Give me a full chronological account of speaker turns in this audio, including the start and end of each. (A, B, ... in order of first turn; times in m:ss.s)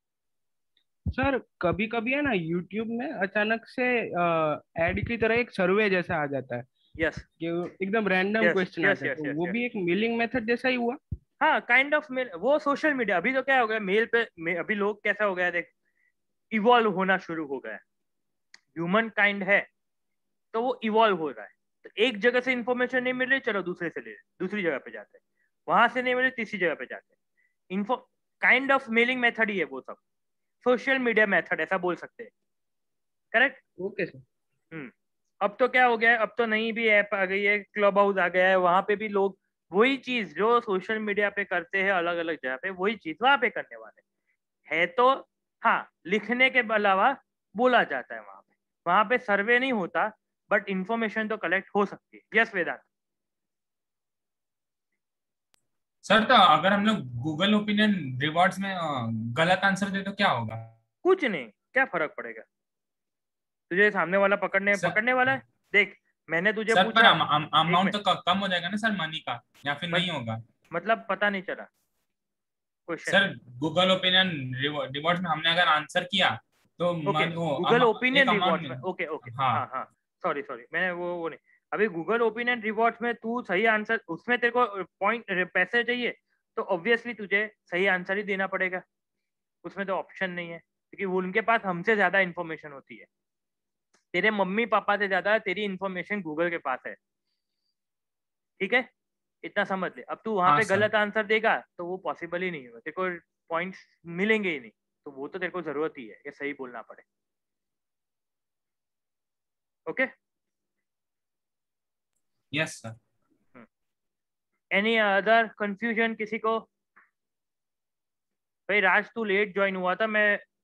0:01.1-0:06.7 A
0:07.0-0:07.2 B
0:07.4-0:11.0 A
0:08.4-0:09.6 B
0:11.4-0:15.7 B
0:16.5-0:17.8 B
0:18.7-0:19.7 B
0:20.5-0:27.1 B
0:27.7-0:30.0 B
0:30.6-0:32.3 B
0:33.3-0:33.6 B
0:33.8-0:34.2 A
0:35.4-0:44.0 B
0:44.7-0:52.8 B
0:56.0-1:00.7 C
1:01.0-1:02.4 B
1:03.7-1:08.0 B
1:06.7-1:10.4 C
1:10.7-1:11.7 B
1:12.9-1:13.2 B
1:13.1-1:19.6 C
1:17.0-1:28.8 B
1:29.6-1:33.1 B
1:34.1-1:37.0 B
1:38.6-1:38.9 B
1:39.4-1:47.0 B
1:40.4-1:40.9 C
1:52.5-1:53.0 C
1:54.7-1:56.7 B
1:58.7-2:00.4 B